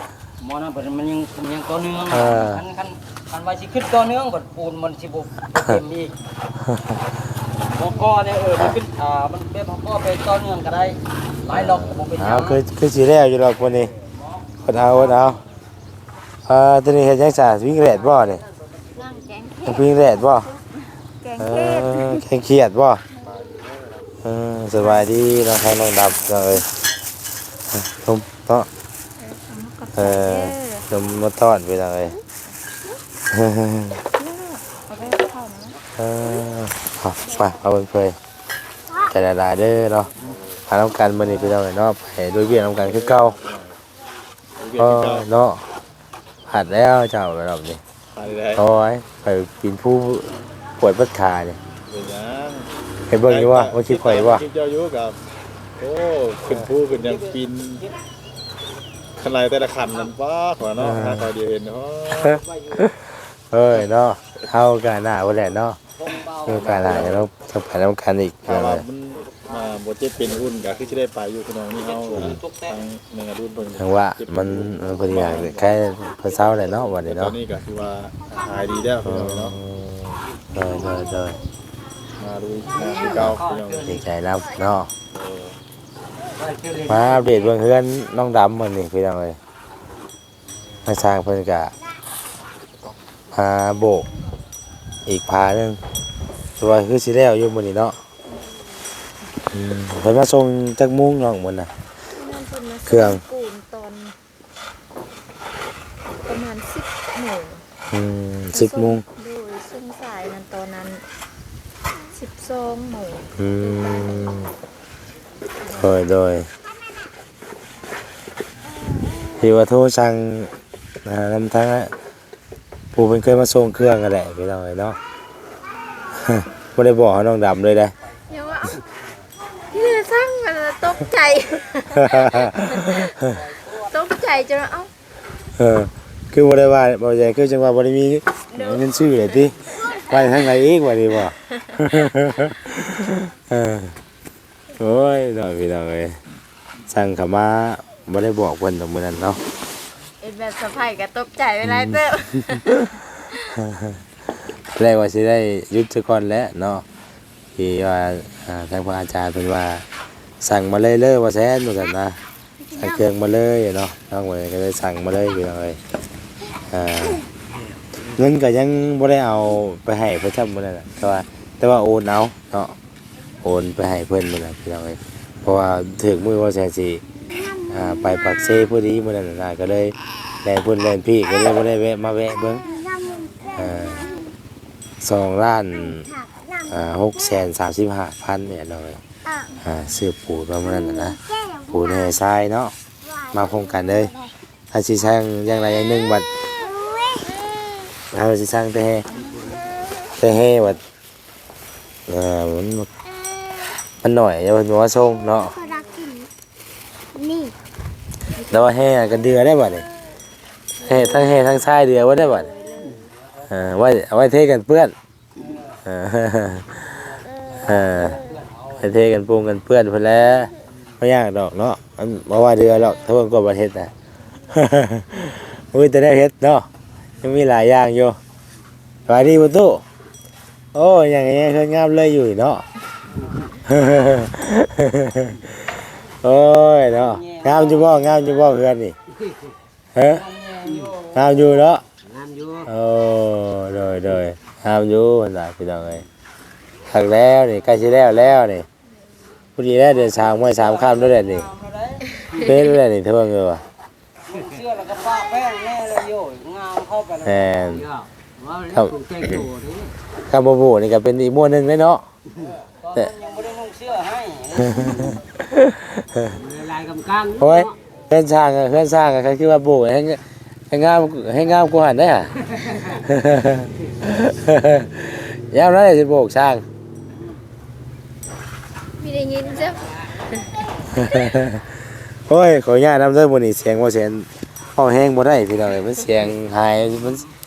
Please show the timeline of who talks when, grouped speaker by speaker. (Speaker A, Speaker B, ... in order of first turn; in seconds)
Speaker A: 0.4-6.2, 7.6-12.6, 13.7-14.4, 56.8-57.9, 62.5-62.8, 66.0-67.1, 69.2-70.8, 71.8-72.8, 217.9-218.5, 236.9-238.5, 240.1-241.2, 249.9-252.4, 254.3-257.9, 262.8-265.2
Speaker B: 2.1-2.6, 6.6-7.0, 11.5-13.9, 14.6-15.4, 16.5-18.4, 19.6-20.5, 21.4-23.0, 24.2-26.7, 27.7-28.7, 29.9-32.1, 33.3-34.0, 36.0-38.2, 39.1-40.1, 40.7-43.4, 44.8-45.6, 46.5-47.8, 48.5-51.6, 53.1-54.4, 60.8-61.3, 62.1-65.8, 66.5-68.8, 73.8-77.3, 79.0-81.4, 83.8-84.9, 86.9-89.4, 90.8-91.7, 93.3-94.0, 95.0-95.8, 96.6-98.0, 99.5-101.7, 102.8-103.2, 107.9-109.0, 113.4-114.5, 115.7-116.5, 119.4-120.5, 121.0-121.9, 122.9-125.0, 126.1-127.9, 131.9-133.4, 135.6-143.9, 144.8-146.2, 146.9-149.4, 151.7-152.9, 153.5-154.0, 154.7-156.8, 157.6-159.8, 160.4-162.2, 162.7-165.8, 166.7-167.2, 168.1-172.7, 173.4-177.0, 177.7-182.7, 183.5-184.1, 185.0-189.0, 189.6-192.7, 193.3-194.1, 194.7-196.3, 198.1-199.1, 200.2-200.8, 202.1-202.9, 204.0-205.6, 208.5-209.8, 210.8-212.5, 213.5-214.9, 215.8-216.9, 217.5-218.2, 218.8-223.9, 224.5-226.7, 227.2-228.2, 229.1-229.8, 230.7-232.6, 233.6-238.9, 239.9-240.3, 241.1-241.8, 242.7-246.0, 246.9-248.7, 249.6-251.5, 252.4-253.6, 257.2-257.9, 258.7-259.4, 260.3-262.1, 264.6-266.4, 267.4-276.6, 280.9-287.3
Speaker C: 18.9-19.8, 20.5-22.2, 29.2-30.9, 34.1-35.8, 102.1-104.1, 106.2-107.6, 108.5-111.0, 112.1-114.3, 115.6-115.9, 128.3-128.8, 129.7-134.9, 138.5-138.8, 150.2-153.5, 205.7-206.1, 210.8-211.3, 212.5-212.9, 279.0-281.3
Speaker D: 42.8-43.8, 44.5-45.3, 48.1-48.6, 51.9-52.7, 53.2-55.2, 55.8-57.8, 59.2-62.4, 66.4-67.3, 68.5-75.8, 77.0-79.5, 82.2-83.9, 85.1-85.6
Speaker E: 82.7-84.0, 86.3-87.5, 240.6-241.0, 242.0-242.7, 257.6-259.9, 266.3-267.7, 272.5-273.0